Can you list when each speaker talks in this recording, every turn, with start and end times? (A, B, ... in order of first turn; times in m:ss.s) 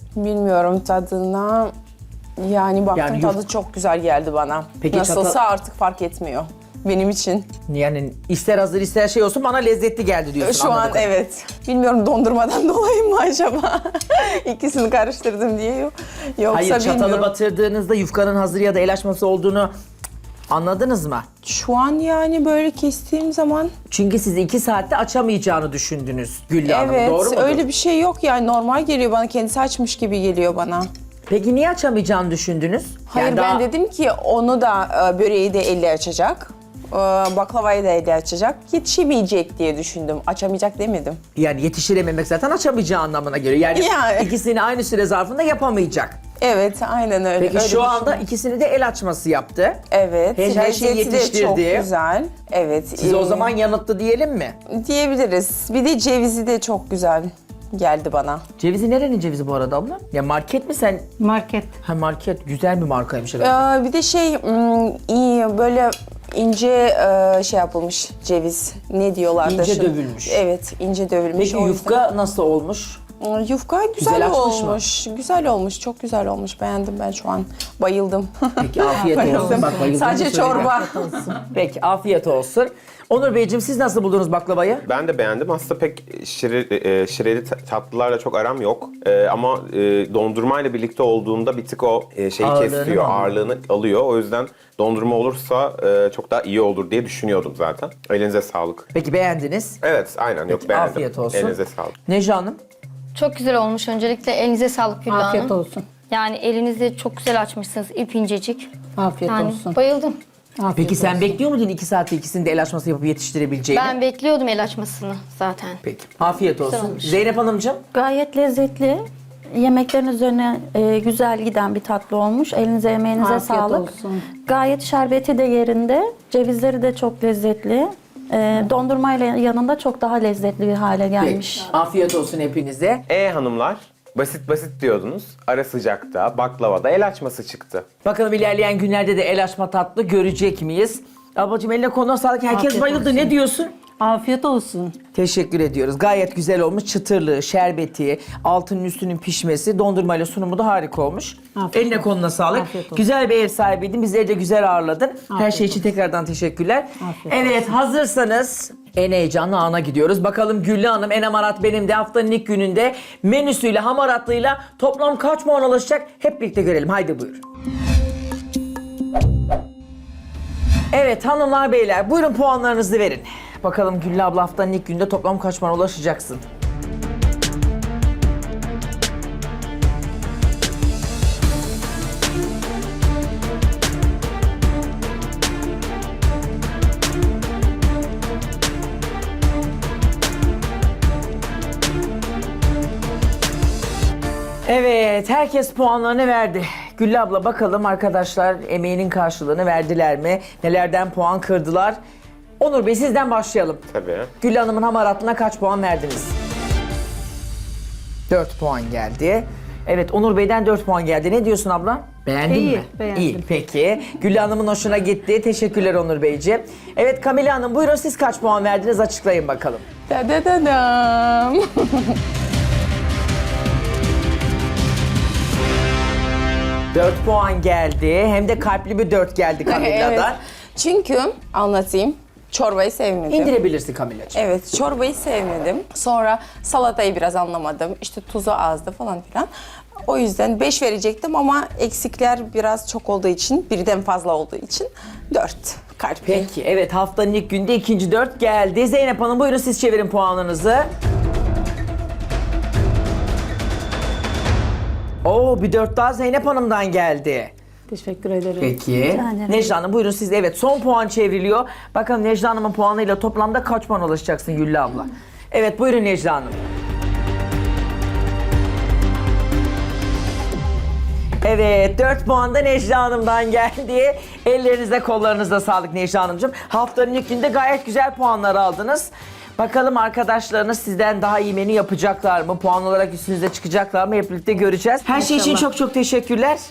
0:00.1-0:01.7 A
0:02.4-0:07.5 A
0:02.9-0:03.4 B
0:04.8-0:05.4 B
0:07.7-0:11.1 B
0:10.4-0:17.3 A
0:16.5-0:19.7 B
0:20.5-0:21.2 B
0:21.4-0:23.7 A
0:23.9-0:27.6 B
0:26.6-0:30.9 A
0:31.3-0:33.6 B
0:33.1-0:41.2 A
0:41.4-0:46.2 B
0:43.7-0:44.4 A
0:46.4-0:48.2 A
0:47.4-0:49.8 B
0:49.9-0:53.5 A
0:50.4-0:51.9 B
0:53.0-0:54.5 B
0:54.7-0:58.4 A
0:58.6-1:01.1 B
1:01.2-1:01.7 C
1:01.8-1:03.6 B
1:03.4-1:12.0 A
1:09.4-1:10.4 B
1:11.4-1:13.0 B
1:13.2-1:21.3 A
1:14.0-1:14.8 B
1:18.6-1:20.8 B
1:19.2-1:19.8 C
1:20.6-1:21.4 C
1:21.5-1:24.8 B
1:24.8-1:38.9 D
1:32.4-1:33.3 B
1:38.9-1:39.8 B
1:39.8-1:41.9 D
1:40.5-1:42.6 B
1:43.1-1:45.6 E
1:45.1-1:45.8 C
1:46.1-1:48.7 E
1:49.0-1:49.8 C
1:49.2-1:50.2 E
1:50.6-1:51.3 C
1:50.7-1:54.0 B
1:53.7-1:55.8 E
1:55.8-1:57.8 B
1:56.6-1:57.1 E
1:57.9-1:59.0 F
1:59.6-2:11.7 F
2:03.2-2:04.2 C
2:11.2-2:13.0 B
2:13.1-2:17.8 D
2:18.0-2:23.7 B
2:22.5-2:23.3 C
2:24.0-2:24.9 C
2:25.1-2:47.4 B
2:31.6-2:33.0 C
2:35.3-2:35.8 C
2:37.0-2:37.6 C
2:50.9-2:56.4 B
3:14.7-3:22.0 B
3:22.6-3:23.8 B
3:23.9-3:24.3 D
3:24.4-3:26.3 B
3:28.3-3:39.8 B
3:32.5-3:33.4 C
3:40.1-3:42.2 A
3:46.9-3:50.4 B
3:49.6-3:53.5 A
3:53.3-3:54.4 B
3:54.3-3:59.5 A
4:00.0-4:06.5 A
4:06.2-4:10.9 B
4:15.2-4:17.5 B
4:17.9-4:18.7 C
4:18.6-4:26.6 B
4:19.1-4:19.6 F
4:31.4-4:46.6 B
4:45.1-4:45.6 C